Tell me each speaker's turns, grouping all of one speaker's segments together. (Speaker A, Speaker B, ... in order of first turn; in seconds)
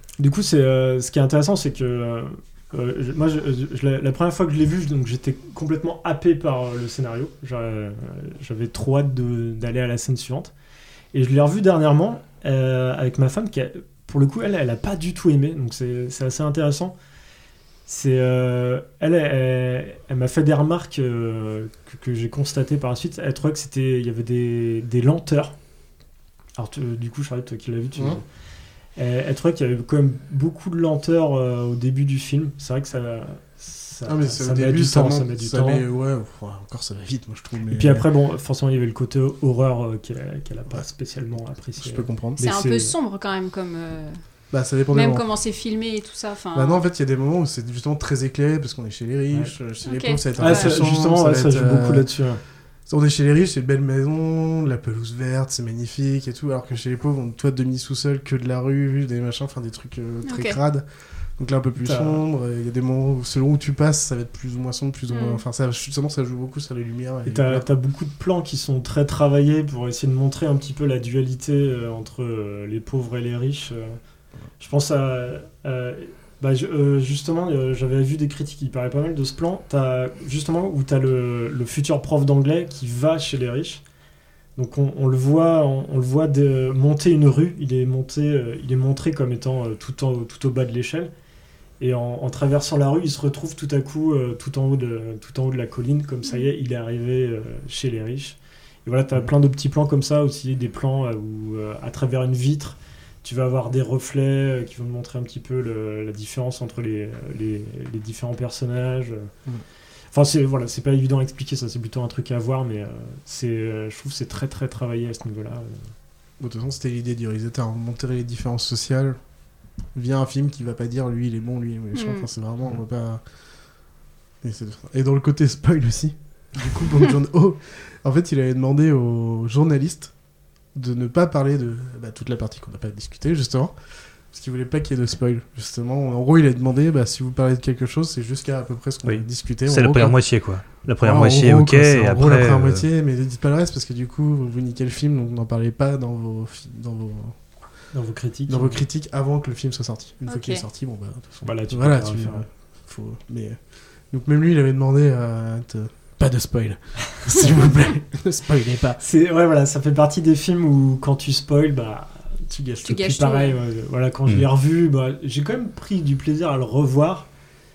Speaker A: 0.2-10.5, 11.1-16.9, 17.9-25.5, 26.6-28.2, 29.0-35.8, 37.7-42.9, 50.4-52.4, 61.8-62.2, 67.2-74.0, 74.6-83.8, 84.6-91.1, 91.8-109.3, 110.1-115.9, 147.9-148.8, 151.4-152.4, 159.0-167.3
Speaker B: 27.9-28.2, 34.0-38.1, 41.8-42.4, 44.5-45.2, 46.5-52.1, 52.9-60.9, 61.4-67.7, 116.4-119.2, 119.9-123.2, 124.4-130.1, 130.7-133.7, 134.3-140.2, 141.0-147.4, 148.5-153.6, 154.1-159.0, 162.5-162.8
Speaker C: 42.4-44.2, 44.9-46.8, 49.8-50.8, 60.2-60.6, 65.1-65.4, 121.9-122.2, 150.2-150.6, 162.8-163.6
Speaker D: 139.1-142.8